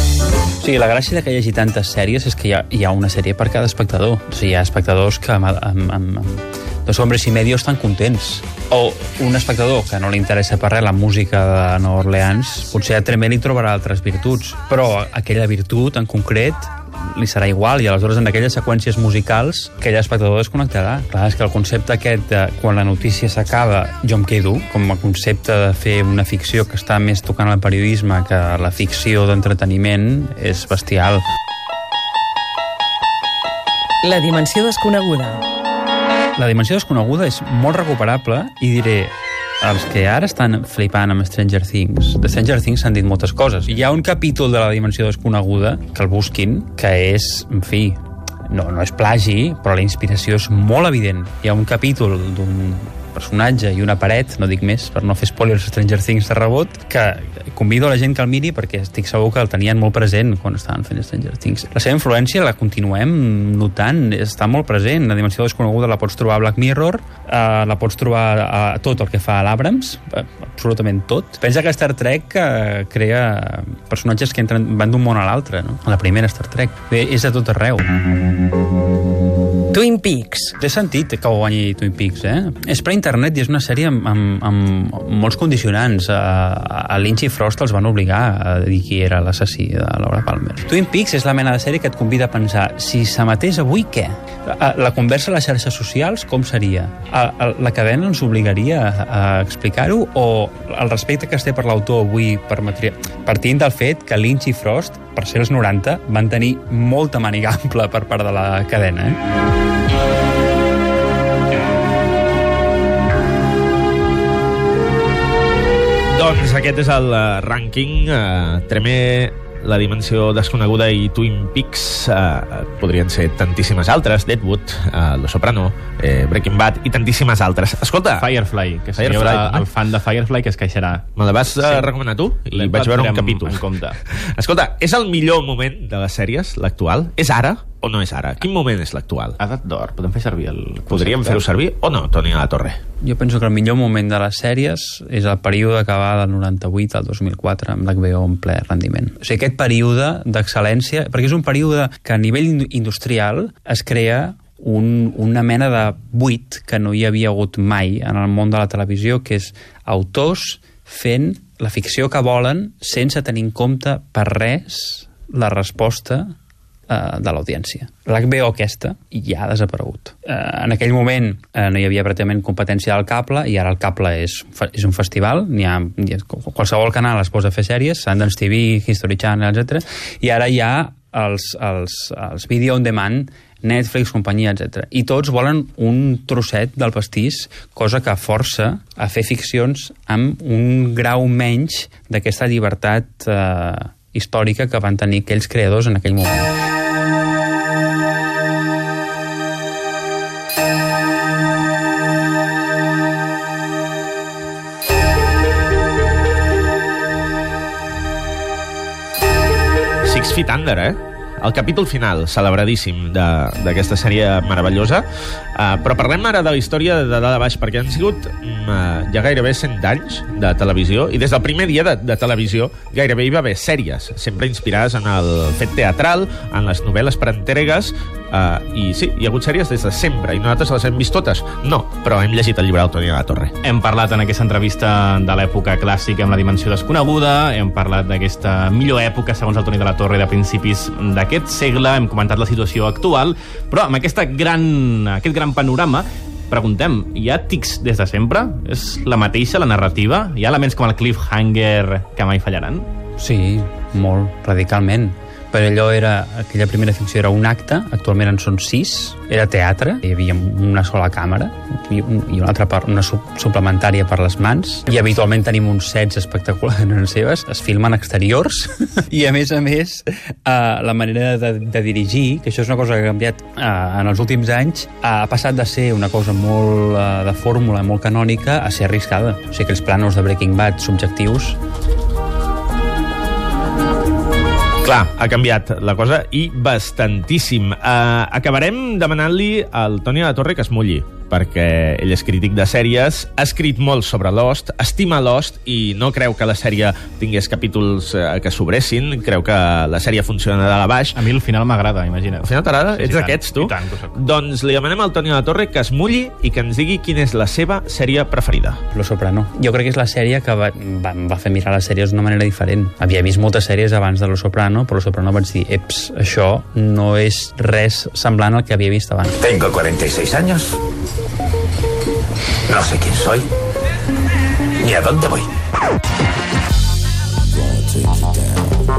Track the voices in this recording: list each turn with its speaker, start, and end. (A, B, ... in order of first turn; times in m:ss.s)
0:00.6-0:31.2 A
0:34.0-0:35.4 B
0:36.4-1:17.8 A
1:19.7-1:20.5 B
1:20.6-1:49.2 A
1:56.1-2:08.3 C
2:08.2-2:11.9 D
2:08.9-2:09.7 C
2:11.2-2:19.4 C
2:12.5-2:14.0 D
2:19.4-2:21.4 D
2:20.9-2:22.8 C
2:23.0-2:46.3 A
2:46.9-3:16.5 A
3:30.0-3:53.5 C
3:53.6-4:12.8 D
4:13.2-4:41.6 A
4:44.8-5:01.2 C
5:01.1-5:04.2 D
5:02.4-5:08.8 C
5:08.9-5:19.4 A
5:19.4-5:20.8 E
5:22.7-5:23.5 E
5:24.8-5:25.5 E